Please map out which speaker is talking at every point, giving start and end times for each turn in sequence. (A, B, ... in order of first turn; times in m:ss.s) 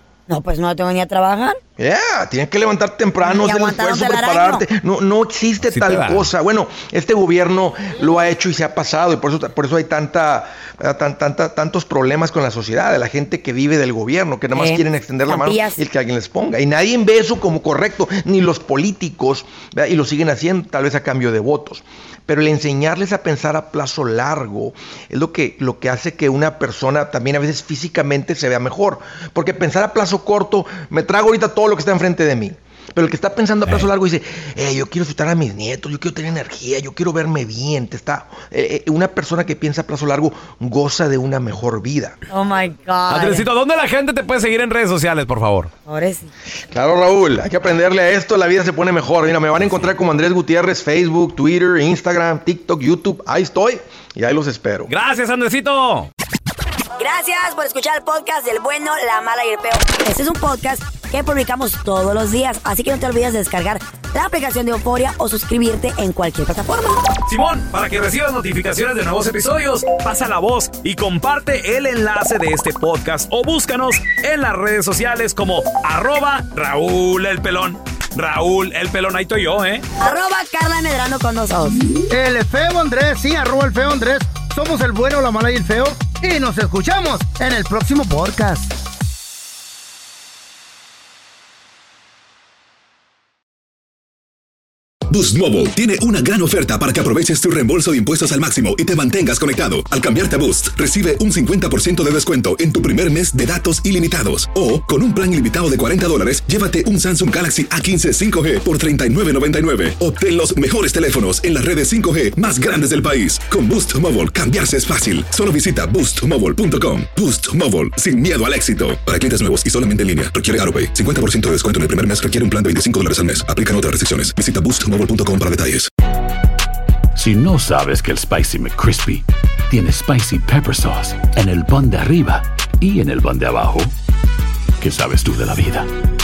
0:00.3-0:01.6 A
0:01.8-0:42.2 B
0:03.2-0:04.6 A
0:05.6-0:06.3 C
0:14.5-0:15.8 A
0:42.3-0:43.4 A
0:43.1-0:45.7 C
0:45.8-0:46.3 A
0:46.7-0:54.9 B
0:54.9-0:56.1 C
0:57.0-1:07.1 A
1:07.2-1:19.8 C
1:20.0-1:21.8 A
1:22.1-1:28.7 D
1:35.1-2:05.9 E
2:07.1-2:13.9 F
2:14.8-2:15.9 F